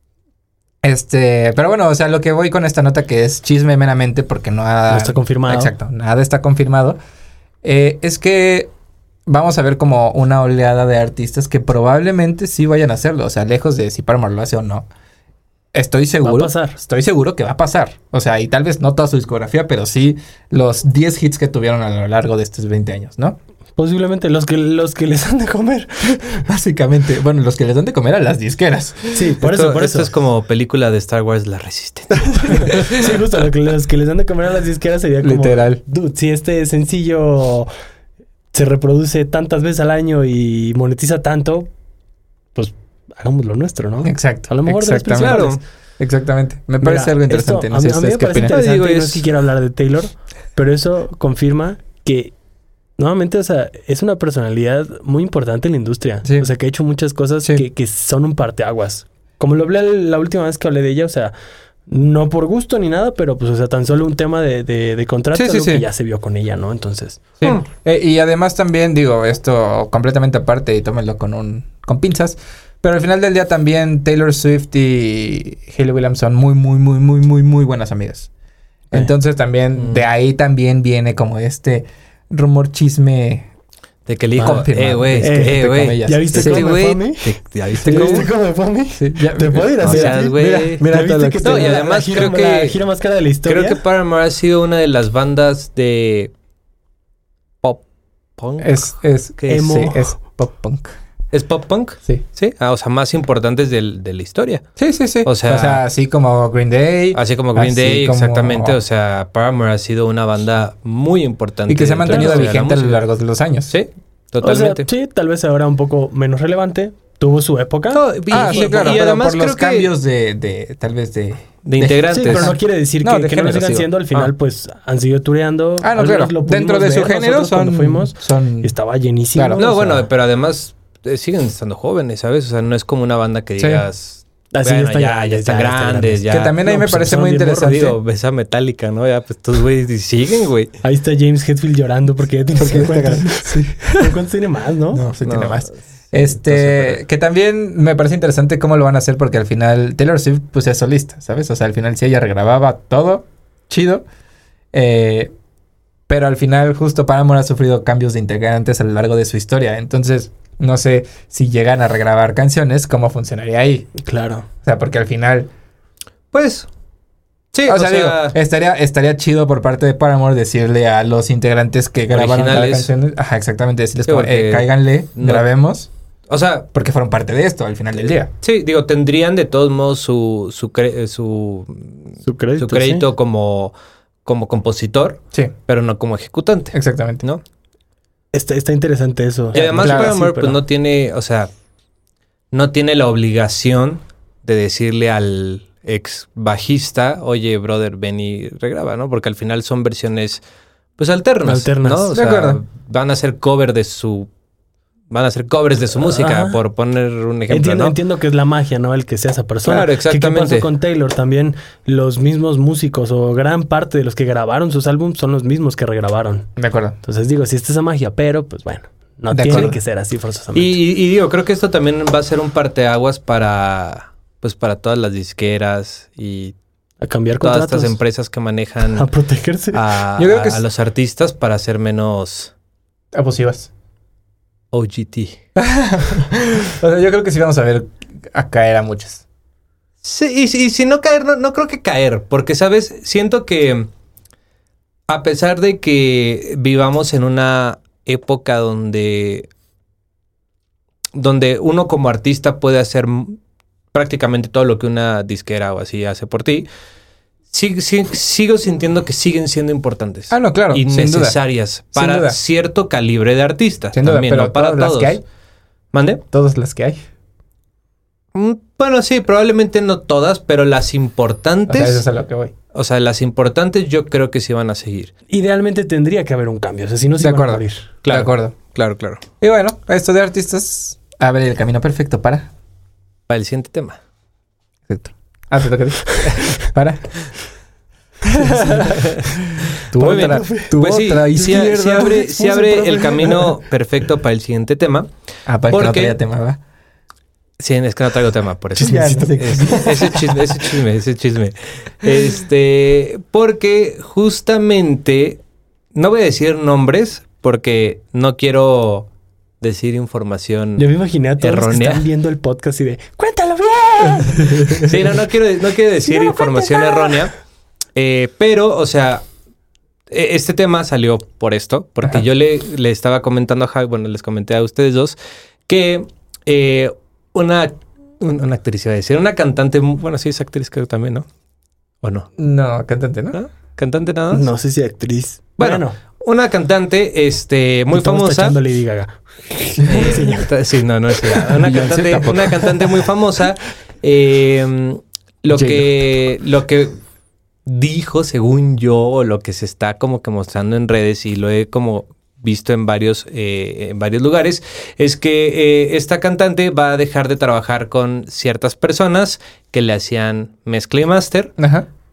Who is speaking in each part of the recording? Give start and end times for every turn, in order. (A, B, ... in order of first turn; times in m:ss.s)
0:00.8-0:07.0 A
0:04.9-0:05.7 B
0:07.6-0:08.7 A
0:09.3-0:14.9 A
0:15.7-0:23.4 A
0:16.2-0:16.8 B
0:23.8-0:26.2 B
0:26.0-0:29.3 A
0:29.1-0:30.1 B
0:29.4-0:32.8 C
0:32.2-0:33.0 A
0:32.5-0:37.7 B
0:35.2-0:35.8 A
0:38.5-0:41.7 B
0:42.5-0:45.6 B
0:44.0-0:45.5 A
0:45.2-0:45.6 C
0:46.0-0:48.5 A
0:46.8-0:52.3 B
0:48.4-0:49.2 C
0:53.0-1:01.3 B
0:56.2-0:56.5 A
1:01.9-1:07.3 B
1:05.3-1:05.8 A
1:07.4-1:18.3 A
1:18.9-1:23.5 A
1:19.8-1:20.0 C
1:24.0-1:28.3 C
1:24.4-1:26.8 A
1:25.2-1:33.8 B
1:27.8-1:28.3 A
1:29.0-1:31.8 A
1:29.8-1:30.8 C
1:31.4-1:32.8 C
1:33.4-1:36.3 C
1:38.4-1:39.6 C
1:38.6-1:41.0 A
1:39.5-1:40.1 B
1:41.3-1:44.6 C
1:44.8-1:48.8 A
1:45.2-1:45.8 C
1:47.1-1:53.0 C
1:51.7-1:53.7 A
1:52.1-1:52.5 B
1:53.7-1:54.9 C
1:54.4-1:58.8 B
1:57.9-1:59.9 C
1:58.3-2:03.9 A
2:01.6-2:02.6 C
2:02.1-2:10.1 B
2:05.8-2:08.7 A
2:09.3-2:09.6 A
2:09.6-2:16.6 C
2:13.6-2:13.8 A
2:14.5-2:17.9 B
2:16.3-2:18.0 A
2:17.6-2:20.7 C
2:20.8-2:25.0 B
2:22.6-2:24.1 A
2:24.9-2:34.0 A
2:25.2-2:27.0 C
2:34.7-2:35.3 A
2:36.1-2:43.9 A
2:44.0-2:44.5 B
2:44.6-2:45.5 A
2:46.3-2:46.7 C
2:47.5-2:48.4 C
2:47.6-2:55.9 A
2:52.1-2:52.9 C
2:54.1-2:55.4 C
2:56.3-2:56.7 C
2:56.7-2:58.3 A
2:58.4-3:03.7 C
3:02.2-3:03.0 B
3:04.2-3:07.4 C
3:06.7-3:07.2 A
3:08.3-3:10.6 B
3:09.5-3:11.5 C
3:09.8-3:10.1 A
3:12.5-3:20.4 C
3:21.0-3:24.3 C
3:21.4-3:22.1 B
3:22.1-3:22.6 A
3:25.1-3:28.0 C
3:26.0-3:26.6 B
3:27.5-3:36.5 B
3:29.6-3:30.7 C
3:36.6-3:37.0 A
3:37.0-3:40.8 B
3:39.3-3:39.7 A
3:39.5-3:39.7 C
3:40.5-3:46.5 C
3:47.0-3:48.0 B
3:47.4-3:49.1 C
3:48.9-3:49.8 B
3:49.7-3:52.5 C
3:50.2-3:50.6 A
3:53.1-3:53.7 A
3:54.7-3:55.4 C
3:55.6-3:59.2 A
4:00.0-4:03.9 C
4:05.1-4:09.5 C
4:11.1-4:13.4 C
4:13.9-4:16.7 C
4:17.5-4:25.2 C
4:20.3-4:21.4 A
4:21.9-4:22.4 A
4:23.9-4:25.2 A
4:25.9-4:26.2 C
4:26.3-4:27.0 A
4:28.3-4:32.0 C
4:31.7-4:32.5 A
4:32.7-4:35.1 C
4:35.3-4:37.9 B
4:37.2-4:38.5 A
4:38.0-4:39.2 C
4:39.4-4:42.5 A
4:43.3-4:44.0 C
4:44.9-4:47.1 A
4:48.2-4:52.2 A
4:48.5-4:48.8 B
4:48.9-4:49.2 C
4:50.0-4:55.1 C
4:50.0-4:53.6 B
4:55.5-4:56.6 A
4:55.7-4:56.2 C
4:57.6-5:05.4 C
4:58.8-5:00.3 A
4:58.8-5:00.0 B
5:05.9-5:09.1 C
5:09.6-5:10.8 C
5:10.8-5:15.0 B
5:11.4-5:12.0 C
5:14.4-5:14.8 A
5:14.8-5:17.3 C
5:16.0-5:17.2 B
5:18.0-5:19.2 C
5:20.1-5:25.2 C
5:25.7-5:31.3 C
5:32.0-5:32.3 C
5:32.4-5:33.4 A
5:33.3-5:34.5 C
5:34.3-5:35.9 B
5:35.6-5:38.6 C
5:37.9-5:40.5 B
5:39.9-5:47.0 C
5:41.6-5:42.7 A
5:45.5-5:45.9 A
5:47.6-6:01.6 C
6:01.6-6:01.9 A